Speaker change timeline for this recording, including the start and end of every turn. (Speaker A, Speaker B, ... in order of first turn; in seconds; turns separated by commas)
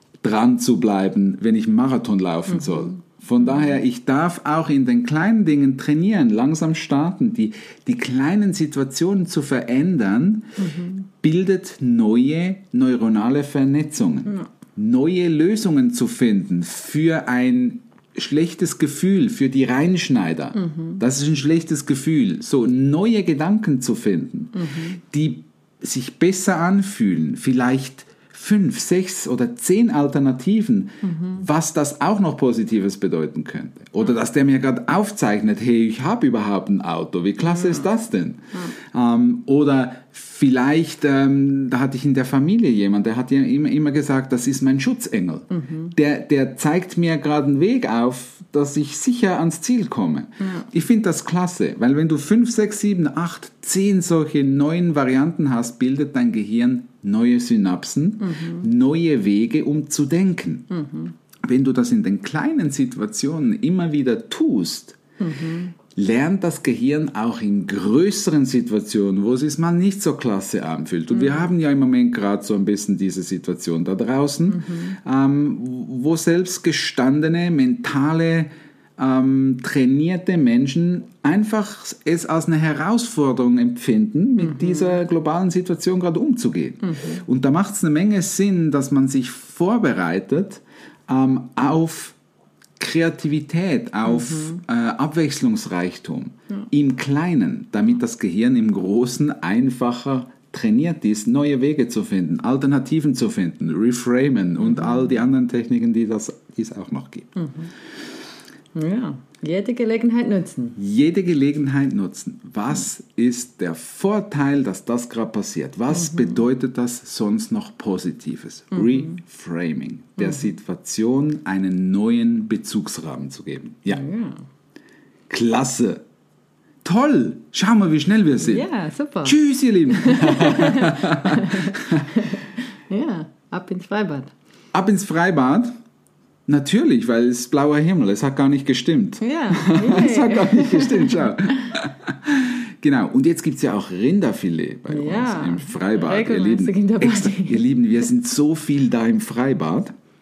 Speaker A: 0.2-10.5, Speaker B: 2.5-3.7, Speaker B: 10.6-11.1, Speaker A: 11.2-60.7, Speaker B: 20.5-21.0, Speaker B: 24.6-25.0, Speaker B: 31.0-31.5, Speaker B: 37.4-37.9, Speaker B: 45.5-46.0, Speaker B: 50.4-50.7, Speaker B: 58.2-58.7, Speaker B: 60.7-61.1, Speaker A: 61.4-65.0, Speaker B: 65.2-65.7, Speaker A: 66.0-92.2, Speaker B: 71.1-71.5, Speaker B: 74.5-75.0, Speaker B: 84.4-85.0, Speaker B: 86.8-87.2, Speaker A: 92.8-107.3, Speaker B: 94.0-94.6, Speaker B: 104.6-105.1, Speaker B: 107.4-107.7, Speaker B: 108.8-110.8, Speaker A: 110.8-124.0, Speaker B: 115.9-116.4, Speaker B: 118.7-119.2, Speaker B: 120.2-120.5, Speaker B: 123.9-124.4, Speaker A: 125.3-126.0, Speaker A: 126.8-128.7, Speaker B: 128.4-134.3, Speaker A: 129.2-132.0, Speaker A: 134.7-135.7, Speaker A: 136.5-149.9, Speaker B: 139.2-141.3, Speaker B: 144.9-147.7